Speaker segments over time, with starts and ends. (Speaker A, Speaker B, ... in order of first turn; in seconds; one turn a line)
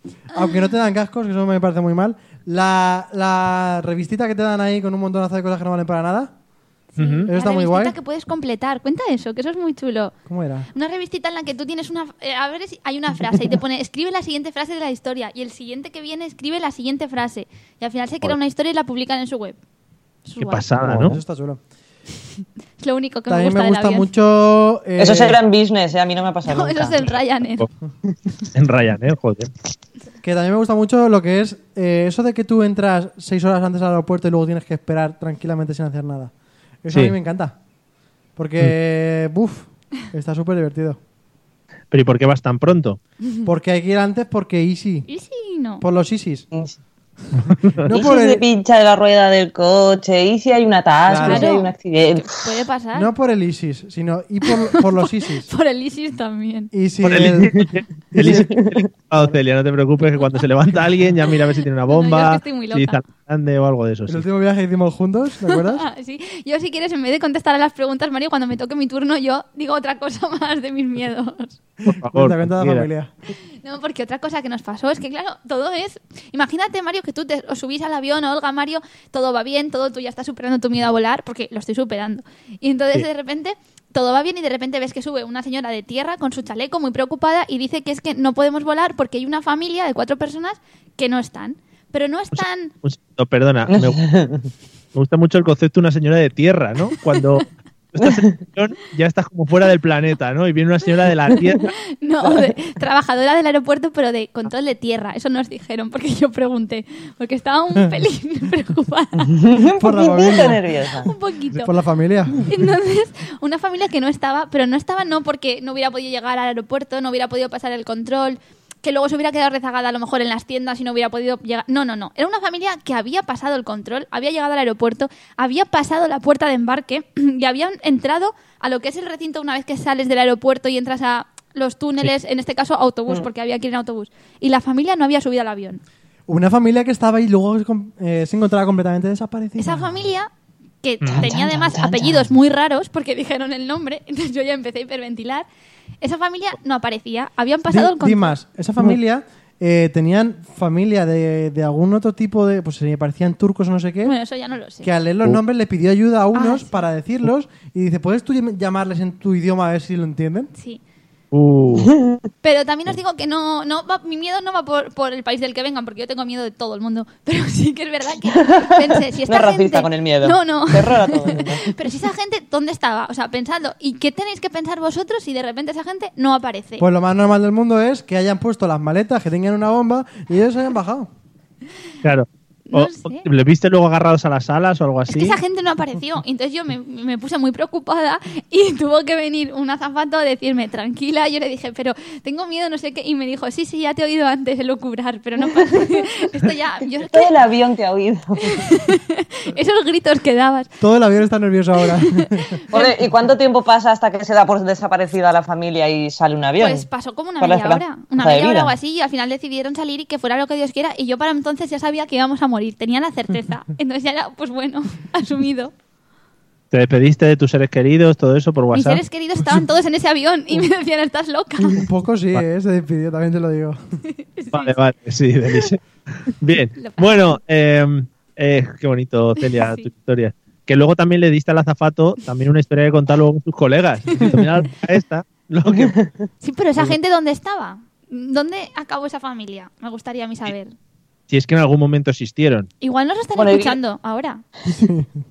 Speaker A: 0.3-6.3
Speaker B: 7.0-10.1
Speaker C: 7.0-7.3
Speaker A: 7.3-8.0
Speaker A: 10.3-10.7
Speaker B: 10.7-19.6
Speaker B: 20.3-20.6
Speaker C: 20.4-21.2
Speaker A: 20.8-21.6
Speaker B: 22.8-24.1
Speaker A: 23.3-25.4
Speaker D: 25.0-27.0
Speaker B: 26.5-27.7
Speaker C: 27.1-27.7
Speaker C: 28.5-29.5
Speaker A: 30.2-36.3
Speaker A: 36.8-37.5
Speaker A: 38.4-41.0
Speaker C: 41.9-43.0
Speaker A: 43.5-45.1
Speaker B: 45.1-45.8
Speaker A: 45.8-46.5
Speaker D: 46.5-46.8
Speaker A: 47.5-48.4
Speaker C: 47.5-47.8
Speaker D: 47.9-52.4
Speaker A: 51.1-51.5
Speaker B: 51.2-53.1
Speaker A: 53.0-55.5
Speaker B: 54.5-54.8
Speaker B: 55.5-56.7
Speaker A: 56.7-58.7
Speaker C: 57.0-64.2
Speaker D: 58.2-58.8
Speaker B: 61.9-63.0
Speaker A: 64.1-65.9
Speaker B: 65.5-71.6
Speaker C: 71.8-72.9
Speaker A: 72.1-73.1
Speaker B: 73.6-92.7
Speaker C: 92.3-94.0
Speaker D: 93.7-94.5
Speaker C: 94.9-101.7
Speaker D: 98.0-98.3
Speaker B: 102.0-109.3
Speaker D: 109.2-111.1
Speaker A: 109.8-110.6
Speaker B: 111.0-111.7
Speaker A: 111.6-112.5
Speaker B: 112.4-135.8
Speaker A: 136.3-139.9
Speaker B: 139.6-140.3
Speaker B: 140.8-145.5
Speaker C: 141.0-141.3
Speaker D: 141.1-142.3
Speaker B: 146.0-148.4
Speaker A: 147.7-154.2
Speaker B: 154.1-154.9
Speaker A: 154.8-160.5
Speaker B: 156.3-156.8
Speaker B: 160.6-160.8
Speaker C: 161.3-161.9
Speaker D: 161.8-162.2
Speaker B: 162.4-176.8
Speaker D: 168.4-171.8
Speaker A: 176.8-181.1
Speaker C: 182.0-185.4
Speaker B: 182.7-183.3
Speaker B: 185.1-197.3
Speaker D: 195.5-196.1
Speaker D: 197.0-198.7
Speaker B: 198.5-200.7
Speaker A: 200.8-202.5
Speaker B: 202.0-203.0
Speaker D: 202.7-206.9
Speaker B: 206.6-215.7
Speaker D: 207.4-208.7
Speaker C: 216.7-219.0
Speaker B: 218.7-221.8
Speaker A: 221.7-223.8
Speaker B: 224.2-224.8
Speaker C: 224.5-235.9
Speaker B: 226.8-227.4
Speaker B: 229.4-229.9
Speaker D: 235.7-236.2
Speaker B: 236.4-240.7
Speaker C: 241.3-242.7
Speaker B: 242.8-244.4
Speaker D: 243.4-243.8
Speaker A: 244.7-245.1